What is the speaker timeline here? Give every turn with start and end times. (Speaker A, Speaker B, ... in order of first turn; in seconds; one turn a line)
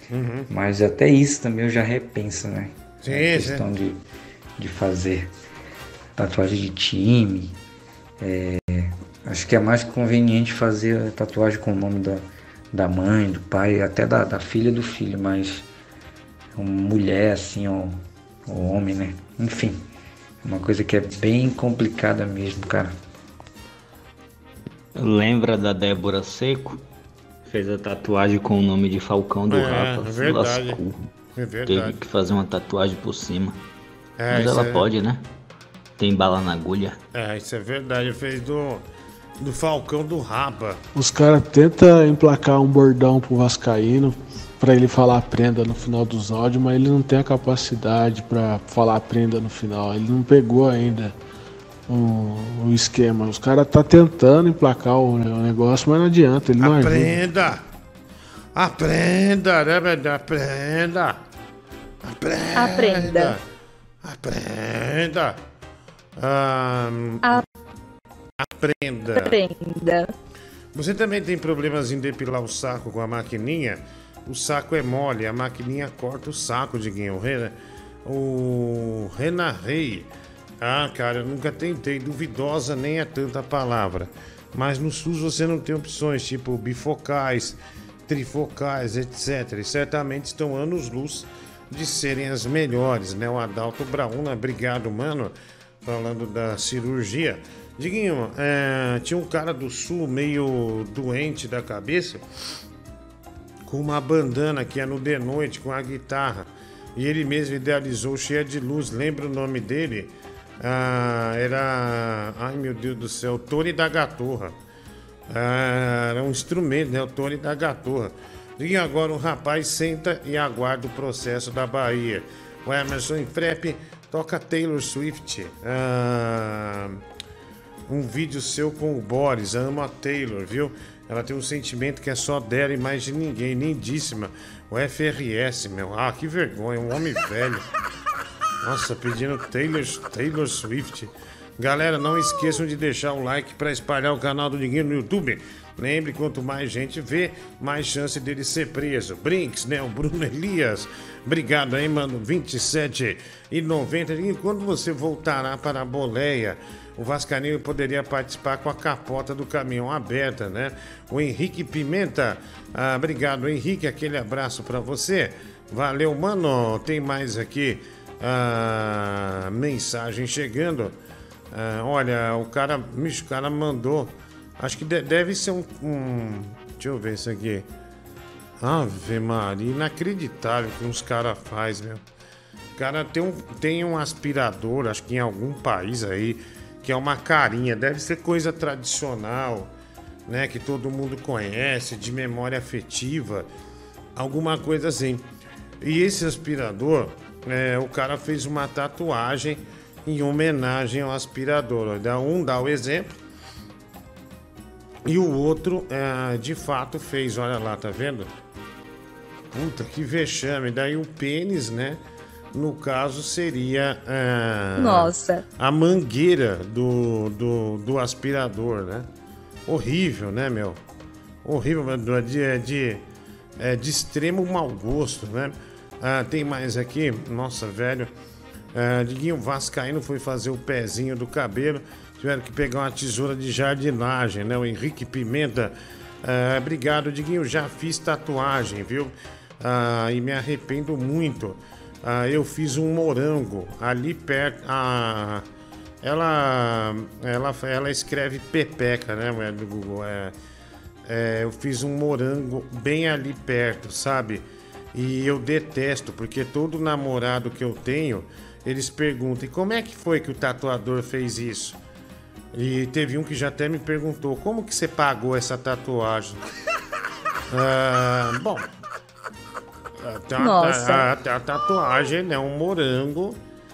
Speaker A: 0.1-0.5
Speaker B: 0.5-4.0
Speaker A: 3.0-3.6
Speaker B: 4.6-5.3
Speaker B: 6.2-7.5
Speaker B: 8.2-15.7
Speaker B: 16.5-19.8
Speaker B: 20.4-22.9
Speaker C: 24.9-26.8
Speaker C: 27.5-30.9
Speaker A: 29.5-30.8
Speaker A: 31.4-32.0
Speaker C: 31.6-33.6
Speaker A: 34.2-34.9
Speaker C: 34.3-35.2
Speaker C: 36.0-37.0
Speaker A: 37.1-38.8
Speaker A: 39.4-40.8
Speaker D: 40.9-51.1
Speaker D: 51.9-57.1
Speaker A: 56.6-57.6
Speaker A: 58.5-61.2
Speaker A: 62.0-63.4
Speaker E: 62.5-63.3
Speaker A: 64.0-65.4
Speaker A: 66.2-67.4
Speaker A: 68.4-69.3
Speaker E: 69.2-70.1
Speaker A: 70.7-80.1
Speaker A: 80.6-102.2
Speaker A: 103.7-114.5
Speaker A: 115.3-127.0
Speaker A: 127.9-137.7
Speaker A: 138.6-170.9
Speaker A: 171.5-177.7
Speaker A: 178.6-182.0
Speaker A: 182.8-189.7
Speaker A: 190.3-193.5
Speaker A: 194.1-195.2
Speaker A: 195.8-203.2
Speaker A: 205.1-208.3
Speaker A: 209.5-212.0
Speaker A: 212.5-219.1
Speaker E: 214.8-215.4
Speaker A: 219.7-220.8
Speaker A: 221.4-223.0
Speaker A: 223.6-228.1
Speaker A: 228.7-245.4
Speaker A: 246.0-250.3
Speaker A: 251.1-261.8
Speaker A: 262.5-266.4
Speaker A: 267.5-268.7
Speaker A: 270.0-273.4
Speaker E: 270.4-271.1